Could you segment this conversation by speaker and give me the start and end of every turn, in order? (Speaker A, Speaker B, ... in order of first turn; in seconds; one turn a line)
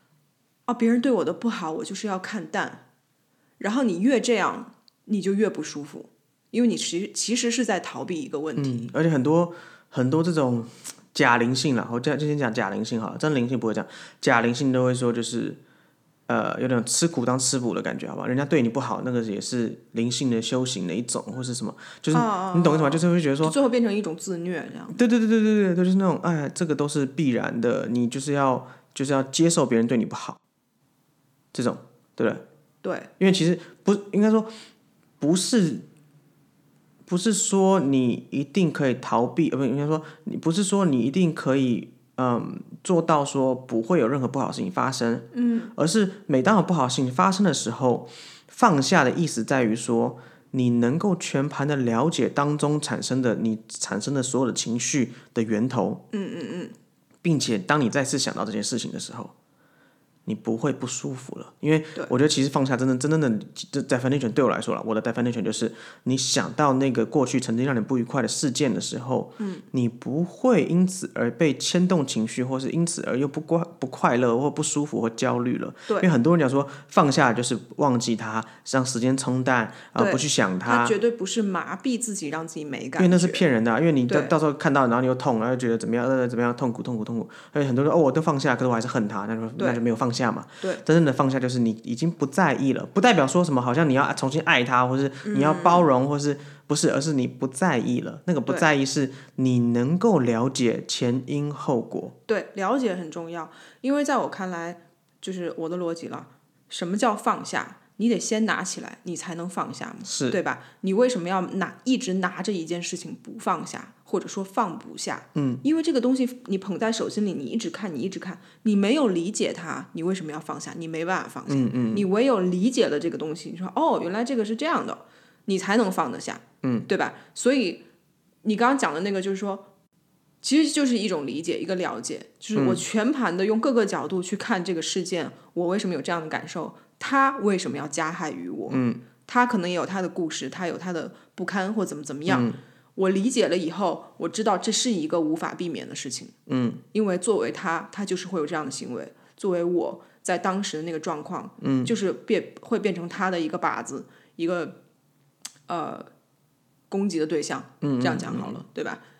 Speaker A: 0.7-2.8
Speaker A: 3.6-8.9
Speaker B: 8.6-15.6
Speaker B: 16.3-23.6
Speaker A: 22.1-25.0
Speaker B: 24.9-30.4
Speaker B: 31.5-32.4
Speaker A: 32.8-33.1
Speaker B: 33.2-34.5
Speaker B: 35.2-35.8
Speaker B: 37.1-56.0
Speaker A: 45.3-45.7
Speaker A: 56.1-56.7
Speaker B: 57.2-59.3
Speaker B: 60.2-80.9
Speaker A: 80.0-83.4
Speaker B: 83.0-102.1
Speaker A: 84.1-84.3
Speaker A: 95.2-95.9
Speaker A: 102.3-127.8
Speaker B: 110.0-110.4
Speaker B: 115.3-115.6
Speaker B: 121.5-122.1
Speaker A: 128.4-129.7
Speaker A: 130.4-146.3
Speaker B: 132.5-132.8
Speaker B: 138.7-139.0
Speaker B: 142.3-142.6
Speaker B: 146.5-146.8
Speaker A: 146.9-154.8
Speaker B: 151.6-151.9
Speaker A: 155.7-156.1
Speaker A: 156.9-159.0
Speaker B: 157.8-158.6